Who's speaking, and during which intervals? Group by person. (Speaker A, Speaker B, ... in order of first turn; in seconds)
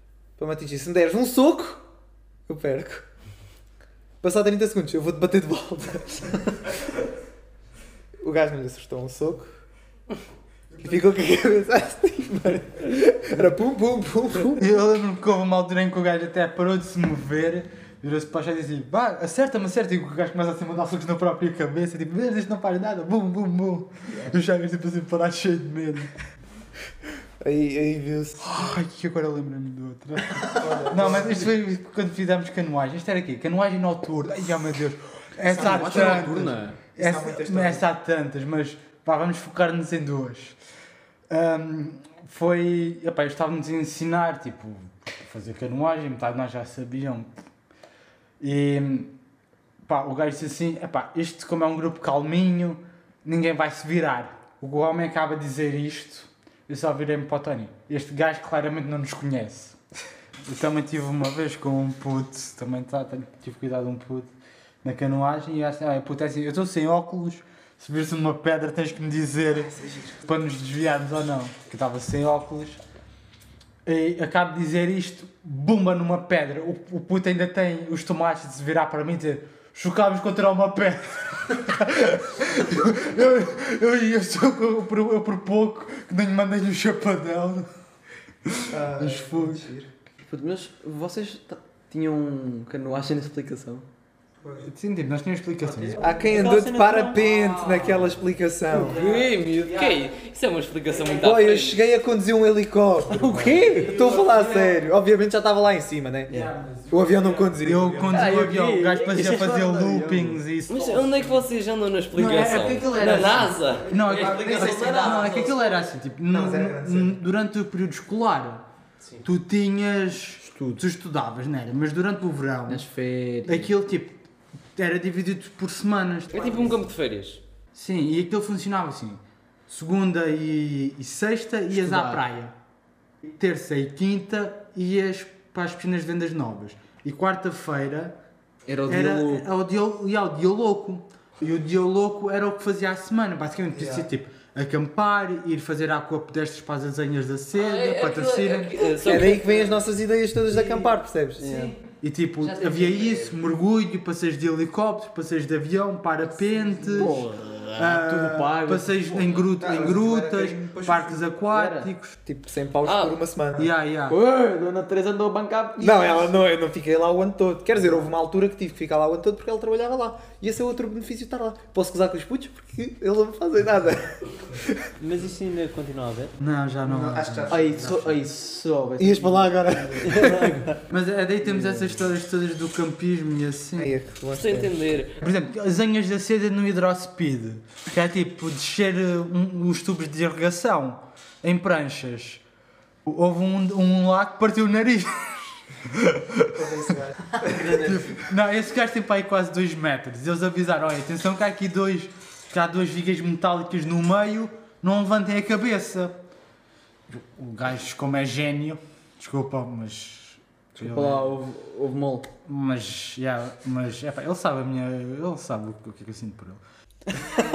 Speaker A: 0.4-1.9, 2.5-3.0, 4.2-6.7, 8.2-9.5, 10.8-14.7, 27.4-28.8, 30.4-31.5, 35.5-37.8, 69.8-70.1, 88.7-89.9, 96.0-99.0, 101.0-108.5, 113.9-115.5, 116.3-117.2, 126.4-126.7, 143.8-144.1, 149.0-151.5, 159.5-161.4, 162.2-163.7, 165.8-174.8, 176.9-178.2, 179.0-180.6, 183.8-184.8, 196.5-197.8
Speaker B: 14.6-26.1, 28.4-40.6, 41.3-47.3, 48.4-49.1, 49.9-59.8, 60.5-72.8, 73.8-87.7, 88.5-89.7, 94.6-96.1, 103.8-104.8, 106.3-111.1, 112.1-118.6, 119.2-122.9, 123.5-124.2, 124.8-126.7, 127.7-132.6, 133.4-138.2, 138.9-149.0, 152.0-162.1, 163.6-164.2, 176.4-177.5, 180.9-183.9, 185.2-192.4, 193.1-196.8, 197.4-206.2, 207.1-211.3, 212.5-216.6
Speaker C: 35.5-36.8, 90.2-93.8, 108.1-110.3, 120.5-120.8, 122.7-123.7, 131.7-132.2, 138.7-139.4, 156.9-159.4, 161.5-161.9, 164.1-166.4, 177.5-179.7, 181.5-181.9, 210.8-212.3
Speaker D: 96.2-97.2, 103.1-104.0, 151.4-151.7, 175.0-176.3, 180.0-180.8
Speaker E: 97.5-97.8, 98.7-101.8, 110.7-115.8, 126.3-127.4, 147.5-149.8, 152.4-153.3, 162.8-163.2, 184.3-185.2